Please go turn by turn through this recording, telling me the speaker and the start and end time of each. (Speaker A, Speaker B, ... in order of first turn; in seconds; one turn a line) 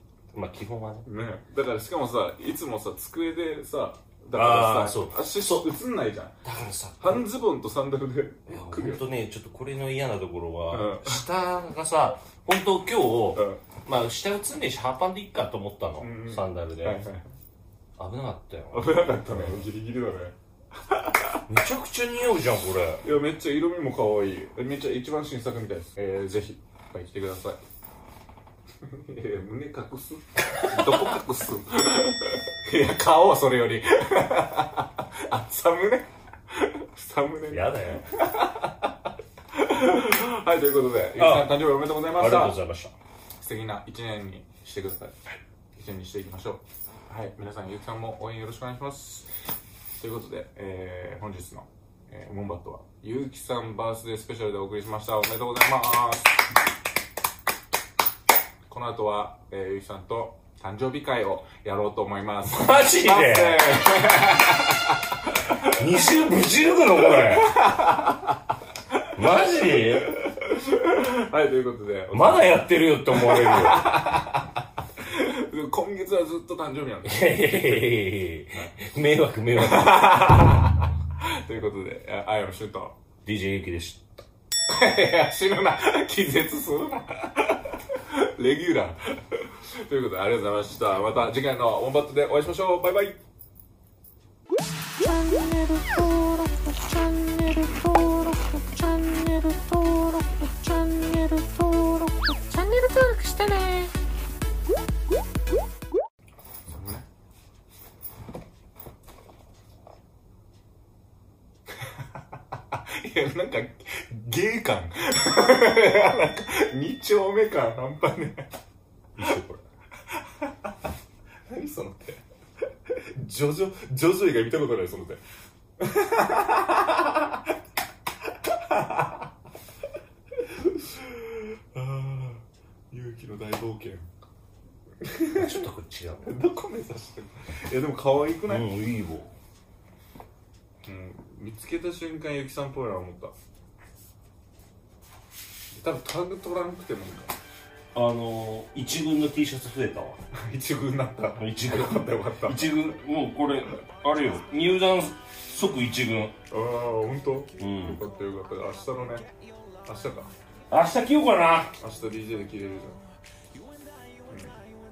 Speaker A: 0.3-1.1
Speaker B: 1.1-6.4
Speaker A: 4.3-5.7
Speaker A: 6.4-7.2
Speaker B: 7.0-9.0
Speaker A: 8.5-17.0
Speaker B: 10.7-11.2
Speaker B: 16.0-17.3
Speaker A: 18.0-19.6
Speaker B: 18.7-21.4
Speaker A: 21.5-23.0
Speaker B: 23.0-27.6
Speaker B: 28.8-42.6
Speaker A: 30.4-31.0
Speaker A: 37.5-38.2
Speaker A: 41.2-42.9
Speaker B: 43.4-45.2
Speaker B: 45.8-49.3
Speaker B: 50.0-56.4
Speaker B: 58.7-66.0
Speaker A: 62.5-64.0
Speaker A: 65.5-67.6
Speaker B: 67.1-68.4
Speaker A: 69.1-70.2
Speaker B: 69.5-72.5
Speaker A: 72.1-74.1
Speaker B: 73.1-78.0
Speaker A: 77.0-80.2
Speaker B: 79.5-83.0
Speaker A: 83.2-84.0
Speaker B: 84.7-93.2
Speaker C: 95.0-103.9
Speaker B: 106.7-107.0
Speaker B: 111.8-118.5
Speaker A: 119.2-119.6
Speaker B: 119.2-119.4
Speaker B: 120.1-120.7
Speaker B: 121.5-122.2
Speaker B: 122.9-125.2
Speaker B: 125.8-127.5
Speaker B: 128.4-129.3
Speaker B: 130.3-134.1
Speaker B: 135.0-135.7
Speaker A: 135.3-136.4
Speaker B: 136.2-138.7
Speaker A: 138.5-139.3
Speaker B: 140.8-143.3
Speaker B: 145.7-147.3
Speaker A: 147.9-150.2
Speaker B: 150.3-152.7
Speaker A: 151.4-156.3
Speaker B: 156.5-159.3
Speaker A: 157.6-158.0
Speaker B: 159.8-160.3
Speaker A: 160.7-161.7
Speaker B: 161.8-163.0
Speaker B: 164.3-164.6